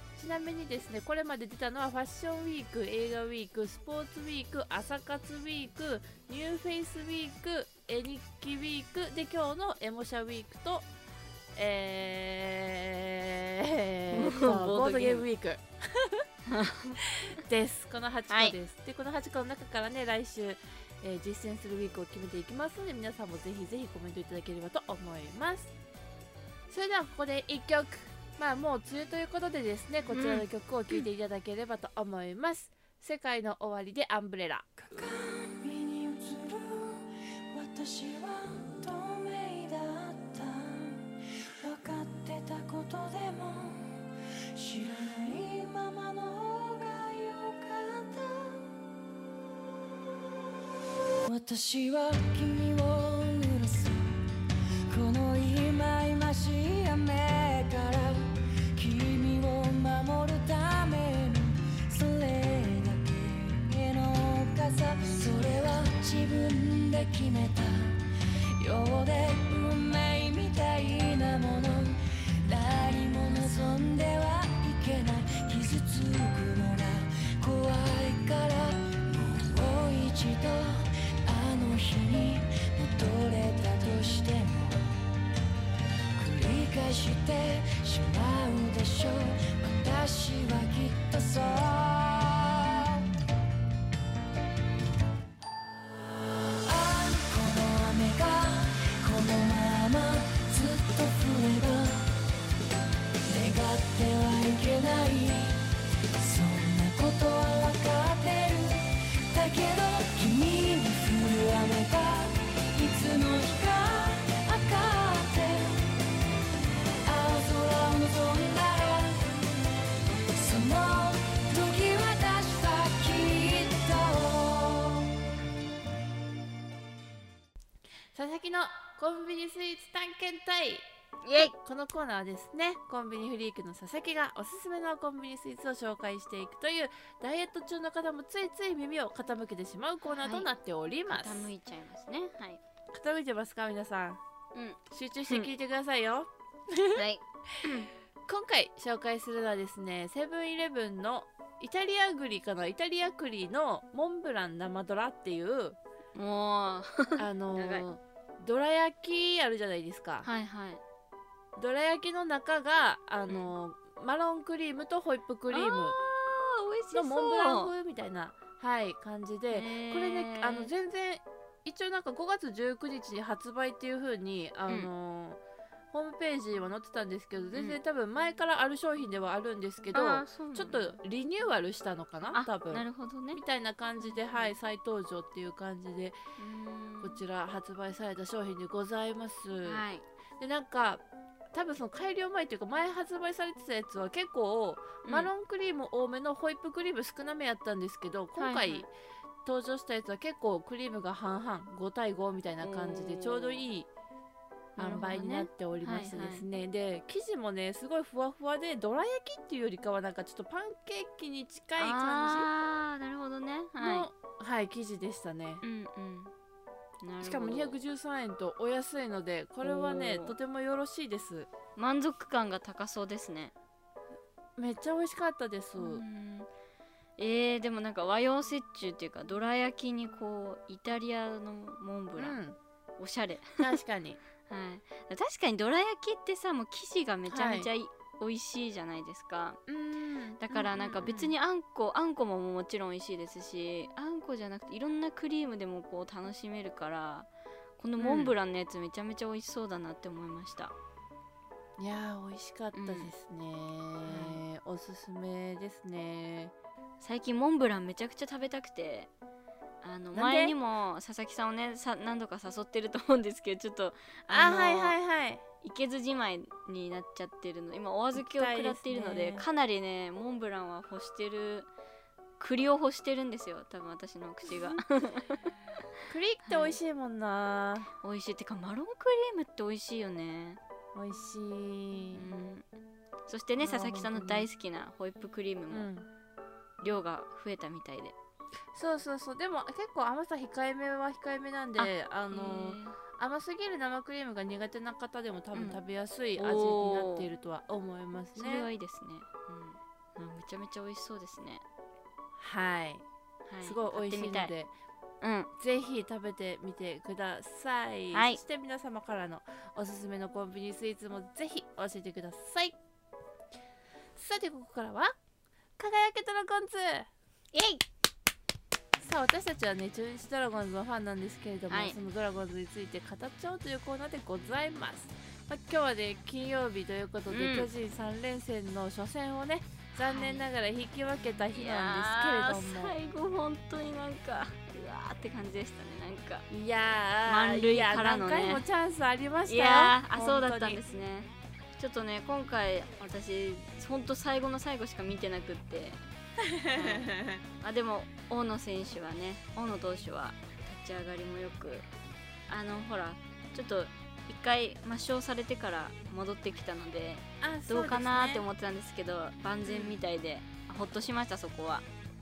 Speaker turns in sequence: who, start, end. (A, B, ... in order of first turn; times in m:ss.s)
0:00.2-0:10.9 A
0:11.6-0:16.2 A
0:14.1-0:15.3 B
0:16.5-0:17.0 B
0:17.1-0:25.7 A
0:18.3-0:18.6 B
0:26.7-0:34.7 A
0:30.1-0:31.1 B
0:34.8-0:48.7 C
0:51.2-0:54.4 C
0:54.9-1:25.0 C
1:26.2-1:33.1 C
1:36.3-1:42.2 C
1:43.2-1:56.0 C
1:57.0-1:59.4 C
2:00.3-2:05.2 C
2:08.1-2:10.8 A
2:11.2-2:11.5 B
2:11.6-2:21.5 A
2:20.1-2:20.5 B
2:21.1-2:22.6 B
2:22.9-2:24.2 A
2:24.5-2:25.5 B
2:24.9-2:27.0 A
2:27.0-2:27.9 B
2:28.3-2:35.8 A
2:36.2-2:37.8 B
2:37.2-2:40.3 A
2:40.2-2:40.8 B
2:41.6-2:46.0 A
2:45.5-2:47.7 B
2:46.9-2:55.4 A
2:49.5-2:50.7 B
2:55.9-3:06.2 A
2:59.9-3:01.0 B
3:02.3-3:03.4 B
3:04.0-3:04.5 B
3:06.4-3:07.2 B
3:07.0-3:09.8 A
3:09.6-3:10.0 B
3:10.4-3:11.0 A
3:11.5-3:18.9 A
3:15.0-3:15.3 B
3:18.4-3:18.9 B
3:19.4-3:23.9 A
3:22.6-3:23.6 B
3:24.8-3:26.4 B
3:24.8-3:32.5 A
3:31.8-3:34.1 B
3:33.8-3:35.6 A
3:35.6-3:36.3 B
3:37.0-3:37.8 B
3:37.2-3:41.5 A
3:39.6-3:40.4 B
3:41.8-3:43.5 B
3:44.6-3:46.0 A
3:45.8-3:46.5 B
3:47.2-3:52.4 B
3:52.2-3:52.6 A
3:53.0-3:53.8 B
3:53.6-3:54.2 A
3:54.5-3:59.6 B
3:57.3-3:57.7 A
3:59.7-4:01.3 A
4:00.4-4:07.3 B
4:07.8-4:10.7 B
4:08.0-4:08.3 A
4:11.8-4:16.5 A
4:12.8-4:13.1 B
4:14.1-4:14.4 B
4:17.0-4:19.1 B
4:19.8-4:25.0 B
4:20.2-4:20.5 A
4:24.3-4:25.4 A
4:25.6-4:31.7 B
4:28.2-4:29.4 A
4:32.4-4:35.5 B
4:34.5-4:34.8 A
4:36.1-4:37.9 A
4:36.4-4:36.8 B
4:38.0-4:40.6 B
4:41.0-4:42.2 A
4:42.2-4:42.7 B
4:43.3-4:45.9 B
4:43.6-4:44.5 A
4:45.7-4:46.1 A
4:46.8-4:48.2 B
4:48.7-4:58.7 A
4:51.8-4:53.0 B
4:55.5-4:55.8 B
4:56.4-4:57.3 B
4:58.4-5:01.6 B
5:02.4-5:03.0 A
5:03.5-5:04.5 B
5:03.6-5:04.7 A
5:05.2-5:05.5 B
5:05.6-5:12.8 A
5:08.1-5:08.4 B
5:14.2-5:15.2 A
5:15.8-5:17.1 A
5:17.5-5:17.8 B
5:19.0-5:33.0 A
5:21.7-5:22.0 B
5:27.3-5:27.7 B
5:30.0-5:30.5 B
5:31.5-5:36.5 B
5:36.5-5:40.8 A
5:37.3-5:38.6 B
5:39.5-5:46.0 B
5:46.4-5:47.4 A
5:46.7-5:47.1 B
5:47.6-5:51.9 B
5:52.5-6:01.8 B
5:57.4-5:58.4 A
5:59.7-6:00.0 A